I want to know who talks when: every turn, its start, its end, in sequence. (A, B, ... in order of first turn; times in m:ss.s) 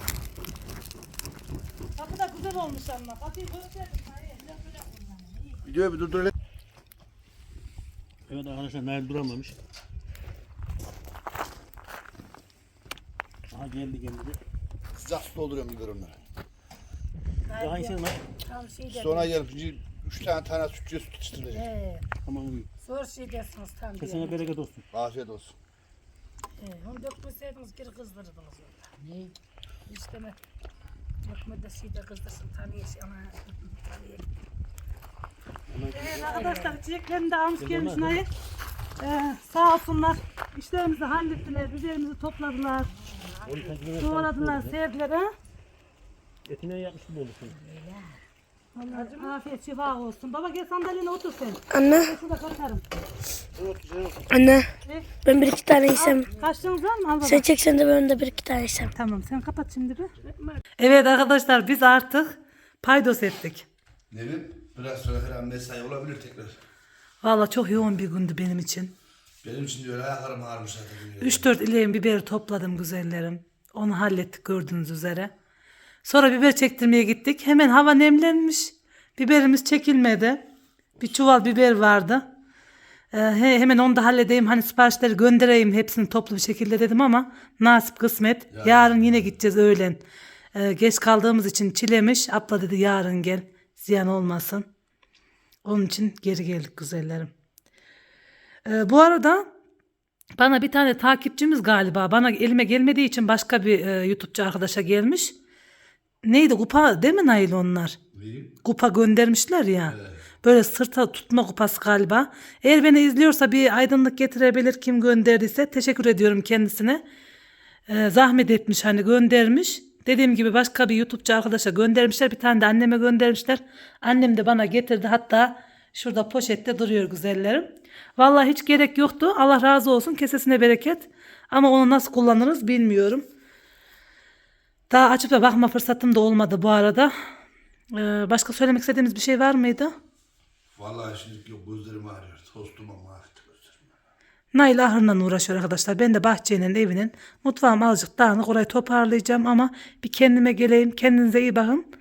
0:02.0-0:05.0 A
0:05.7-0:06.3 B
0:08.3-0:09.6 C
0:13.5-0:14.4 C
0:14.9-0:16.3 B
0:17.5-0:19.3 D
0:17.6-0:18.2 C
0:18.9-0:21.7 B
0:21.5-0:22.1 D
0:22.2-0:22.7 C
0:22.8-0:24.6 D
0:24.0-0:24.8 C
0:24.9-0:25.6 B
0:26.6-0:29.3 D
0:29.9-0:30.4 D
0:31.2-0:34.3 D
0:35.7-0:36.4 C
0:35.9-0:38.3 A
0:36.1-0:36.8 D
0:37.6-0:38.2 C
0:39.0-0:42.9 A
0:43.0-0:43.7 D
0:43.4-0:44.8 C
0:43.9-0:45.3 A
0:46.5-0:47.6 C
0:47.8-0:48.0 D
0:48.8-0:49.3 D
0:48.9-0:52.8 A
0:51.7-0:52.1 E
0:53.6-0:54.2 B
0:54.3-0:54.7 E
0:55.2-0:56.3 E
0:55.9-0:57.5 A
0:57.2-0:58.9 E
0:59.0-1:00.1 A
1:00.8-1:03.7 A
1:04.1-1:06.6 B
1:07.2-1:08.9 A
1:09.4-1:11.5 B
1:11.2-1:15.3 A
1:16.0-1:20.4 A
1:21.0-1:22.3 A
1:23.1-1:30.0 A
1:28.5-1:29.3 B
1:30.5-1:34.7 A
1:35.6-1:37.3 A
1:38.7-1:39.5 A
1:40.4-1:45.3 A
1:46.2-1:48.0 A
1:48.1-1:48.6 B
1:48.6-1:57.0 A
1:49.9-1:50.2 B
1:57.9-2:07.7 A
2:08.2-2:13.2 A
2:14.9-2:17.1 A
2:17.9-2:19.9 A
2:20.7-2:24.0 B
2:24.5-2:31.9 A